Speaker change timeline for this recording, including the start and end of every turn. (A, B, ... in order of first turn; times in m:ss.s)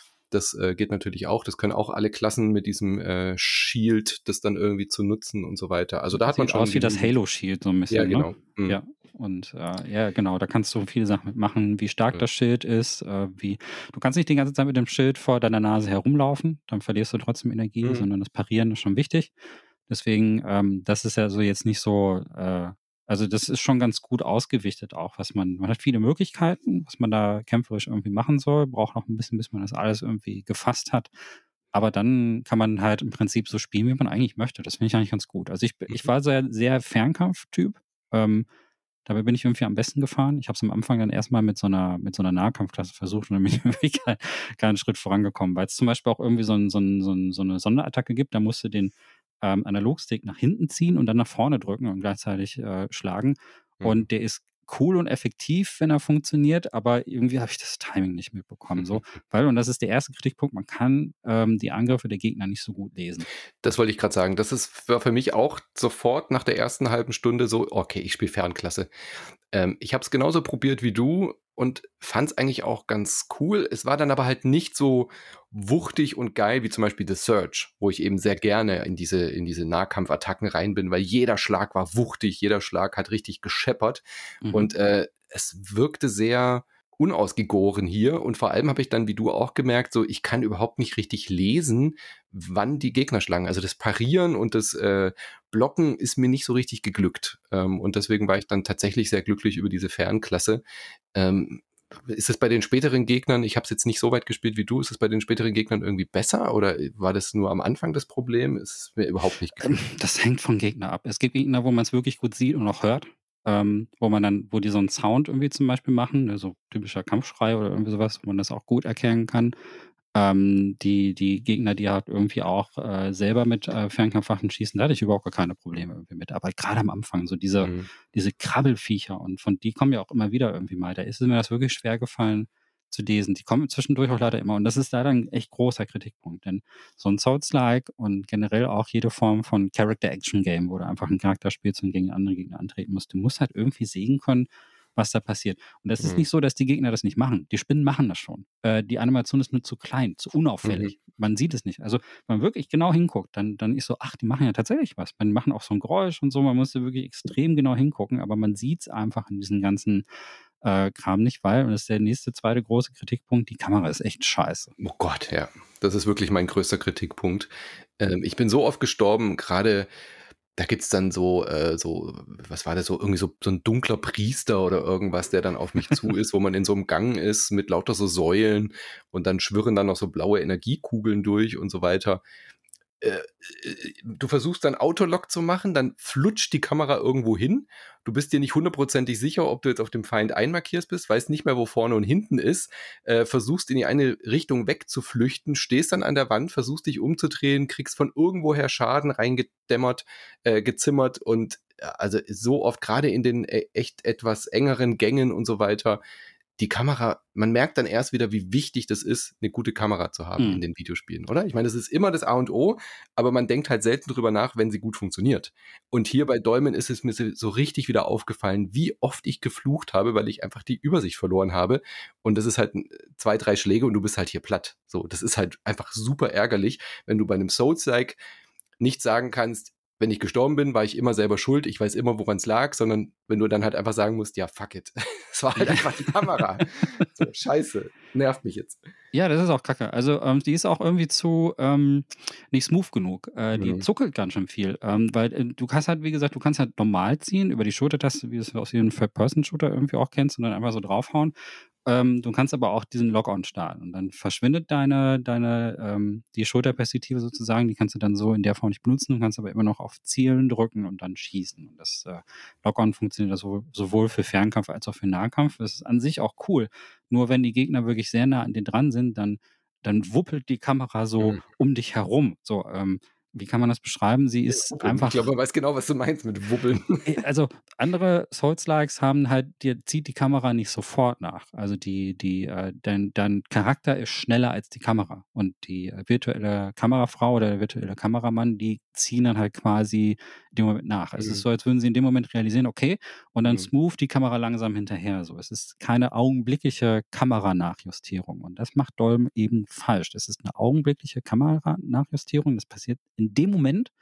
0:00.3-0:07.1 A
0:06.1-0:19.3 B
0:07.9-0:08.8 A
0:17.8-0:18.1 A
0:19.9-0:31.1 B
0:31.7-0:38.4 B
0:39.1-1:03.3 B
0:53.8-0:54.1 A
0:58.7-0:59.0 A
1:03.6-1:08.9 A
1:09.5-1:40.6 A
1:24.4-1:24.7 B
1:41.1-1:49.6 A
1:49.6-1:59.6 B
2:00.1-2:40.0 B
2:07.6-2:07.9 A
2:30.6-2:30.9 A
2:40.6-2:44.7 B
2:44.8-2:49.9 A
2:50.6-3:02.2 A
3:03.0-3:26.0 A
3:26.6-3:48.2 A
3:48.8-3:58.8 A
3:55.6-3:57.1 B
3:59.1-4:11.3 B
4:03.6-4:03.8 A
4:11.8-4:35.3 B
4:34.5-4:37.2 A
4:37.1-5:03.9 B
4:51.2-4:51.4 A